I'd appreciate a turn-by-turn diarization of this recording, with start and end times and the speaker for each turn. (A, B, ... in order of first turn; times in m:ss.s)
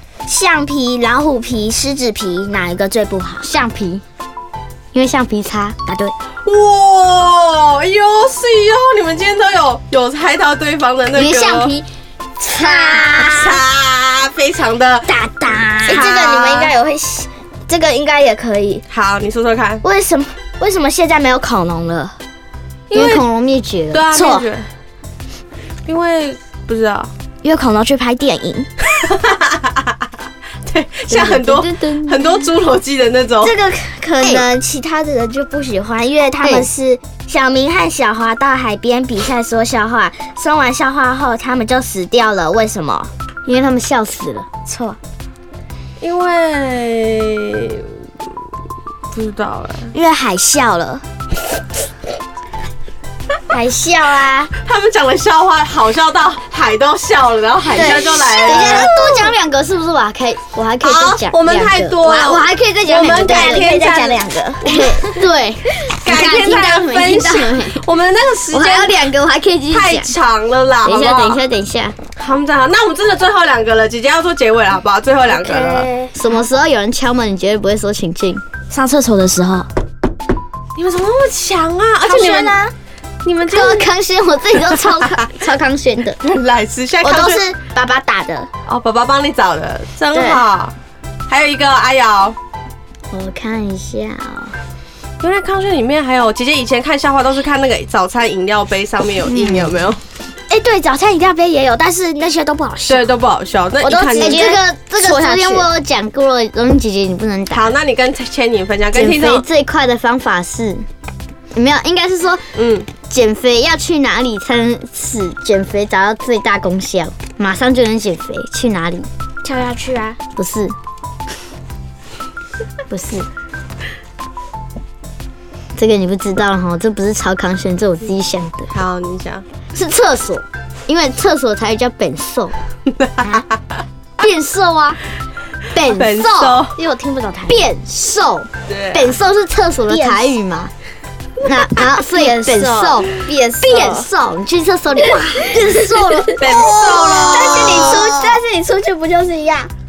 0:00.3-0:03.5 A
0:03.4-0:04.0 B
0:04.9-0:05.9 B
0:05.9-0:06.1 A
0:06.4-0:11.7 C
0:11.2-0:11.9 B
0:12.4-0:13.4 B
0:12.4-0:13.6 A
0:13.1-0:15.1 C
0:15.1-0:16.0 B
0:15.4-0:18.8 A
0:15.8-0:16.7 C
0:18.9-0:19.8 C
0:19.8-0:22.2 A
0:22.9-0:23.2 C
0:22.9-0:24.2 B
0:23.9-0:24.7 C
0:24.1-0:24.5 A
0:25.9-0:27.1 C
0:27.4-0:28.7 A
0:28.9-0:30.0 C
0:30.7-0:33.6 C
0:31.1-0:32.3 B
0:33.4-0:43.1 A
0:43.5-0:44.5 B
0:44.7-0:45.0 A
0:46.0-0:47.9 C
0:49.1-0:49.9 C
0:49.9-0:51.0 A
0:53.5-0:54.5 A
0:54.6-0:58.9 C
0:57.7-0:59.3 A
0:57.8-1:03.7 B
1:00.8-1:05.2 C
1:02.9-1:05.0 A
1:04.6-1:07.8 B
1:06.0-1:09.1 C
1:08.5-1:10.1 B
1:09.7-1:11.4 C
1:10.8-1:12.0 B
1:12.2-1:15.9 C
1:15.4-1:16.2 A
1:16.0-1:18.4 B
1:18.7-1:19.7 A
1:20.8-1:22.6 C
1:22.0-1:22.7 A
1:23.2-1:23.9 C
1:23.5-1:26.2 B
1:24.6-1:25.3 C
1:26.2-1:27.4 C
1:27.0-1:28.5 A
1:28.7-1:30.7 C
1:31.3-1:32.4 C
1:33.1-1:34.5 B
1:35.2-1:40.0 C
1:39.3-1:39.7 A
1:40.5-1:43.1 A
1:42.8-1:44.5 C
1:43.8-1:45.7 A
1:44.2-1:47.7 B
1:47.5-1:49.4 C
1:48.9-1:50.9 B
1:51.6-1:52.4 B
1:52.6-1:52.9 C
1:53.0-1:59.1 B
1:59.4-2:00.2 A
2:00.4-2:00.7 B
2:02.9-2:03.3 B
2:05.8-2:08.7 B
2:08.7-2:09.4 C
2:09.7-2:12.6 B
2:12.9-2:13.8 C
2:14.2-2:15.0 B
2:15.7-2:16.6 B
2:15.8-2:16.8 C
2:16.8-2:17.7 A
2:17.5-2:20.7 B
2:18.7-2:19.2 C
2:19.9-2:20.2 A
2:21.4-2:26.4 B
2:22.0-2:24.0 A
2:25.0-2:29.7 A
2:26.4-2:28.2 C
2:27.0-2:28.0 B